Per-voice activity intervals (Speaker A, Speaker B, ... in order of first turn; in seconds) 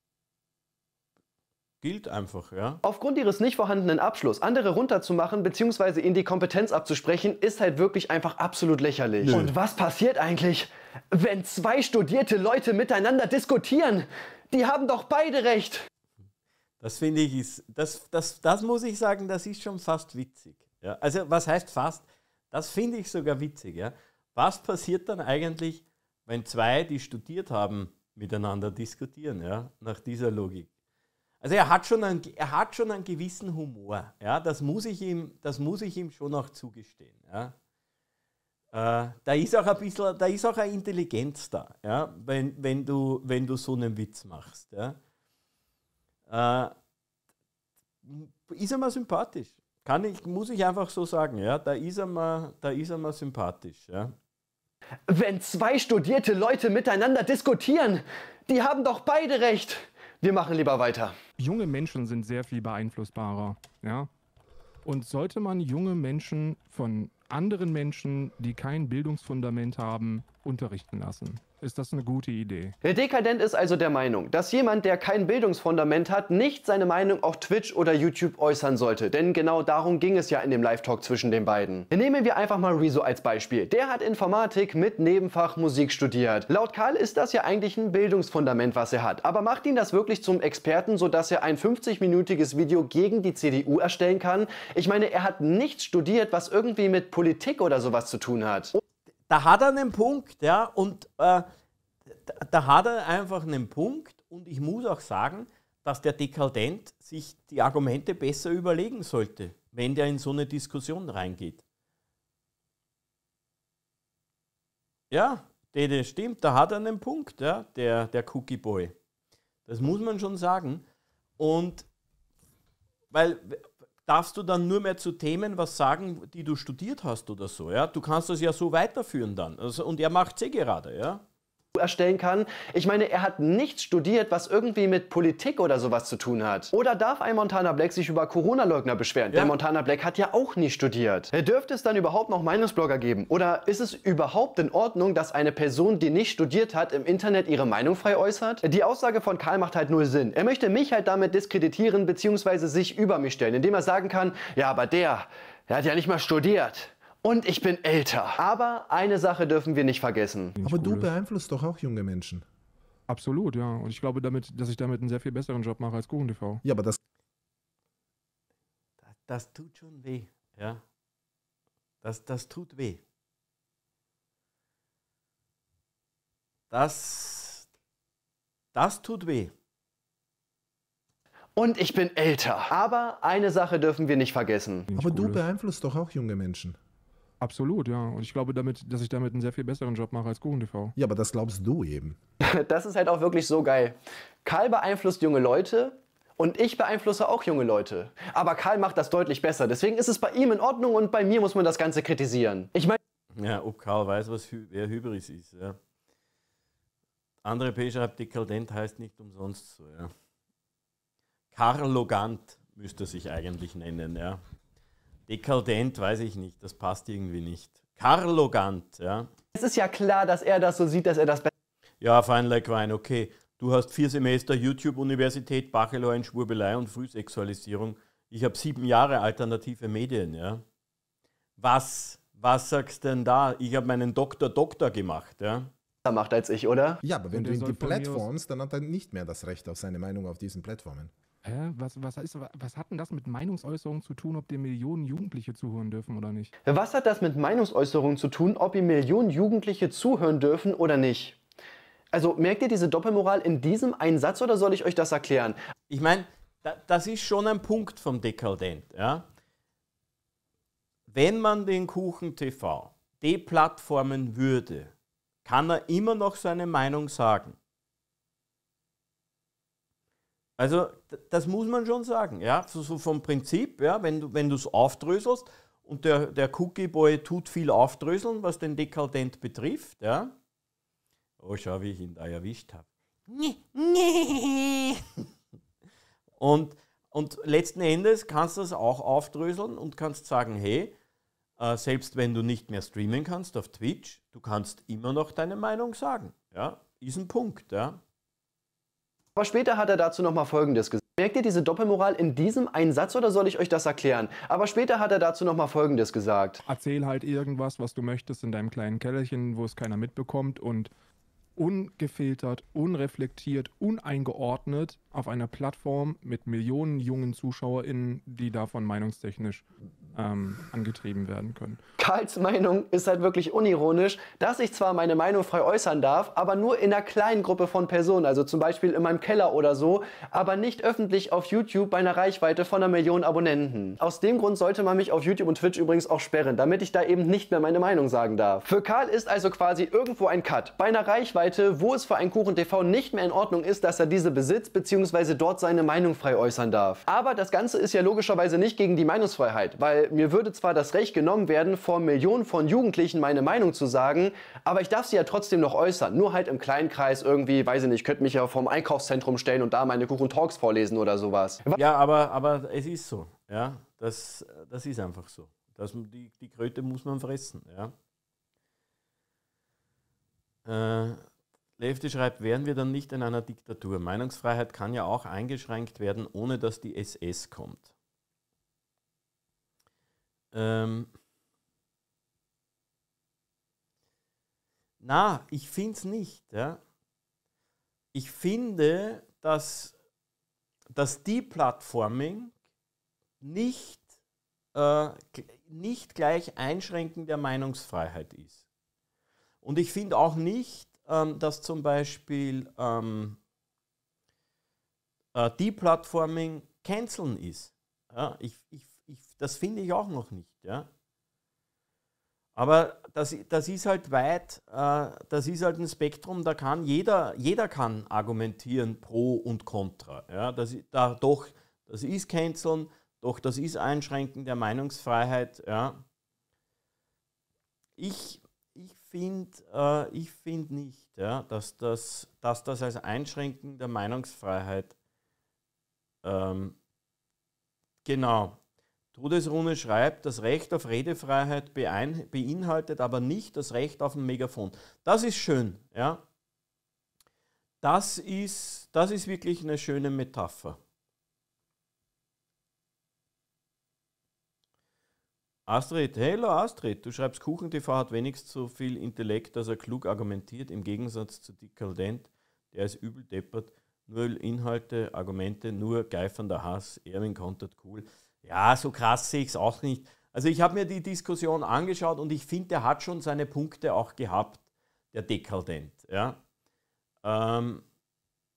Speaker A: 1.8-2.8, 9.2-9.5, 16.8-30.7, 31.4-37.5, 38.7-45.0, 46.3-46.7, 48.0-54.1, 99.3-101.5, 102.2-111.6, 115.1-119.0, 119.7-120.8, 121.4-121.9, 123.1-131.2, 169.0-170.8, 172.0-173.0, 176.7-177.7, 178.7-179.5, 203.4-205.8, 207.4-210.1, 211.5-214.4, 215.3-219.3, 222.0-230.6, 231.6-235.7, 255.9-259.3, 261.1-264.9, 265.4-267.6, 270.6-280.4, 281.4-285.2, 286.4-290.9, 291.6-298.0, 361.8-367.9, 370.6-371.2, 371.8-377.9, 380.5-381.1, 385.0-386.8, 388.1-389.9, 390.9-392.6, 393.4-394.1, 394.7-398.6, 399.6-403.4, 405.3-410.9, 412.6-426.0, 428.0-434.9, 436.2-436.8, 438.1-438.6, 439.1-446.2, 447.8-450.8, 455.7-474.6, 475.1-476.4, 477.2-477.9
Speaker B: 2.8-15.9, 55.1-61.1, 72.8-98.8, 131.8-160.6, 181.6-184.9, 192.4-203.0, 219.6-221.5, 236.1-237.0, 246.7-251.4, 252.1-255.6, 299.4-306.6, 322.0-361.8
Speaker C: 61.4-64.1, 64.8-72.8, 160.6-161.1, 163.1-166.6, 184.9-185.4, 187.4-191.0, 237.3-238.3, 241.4-246.5, 306.7-310.9, 311.6-321.8
Speaker D: 160.6-162.5, 166.6-167.0, 184.9-186.8, 191.0-192.2, 237.0-241.1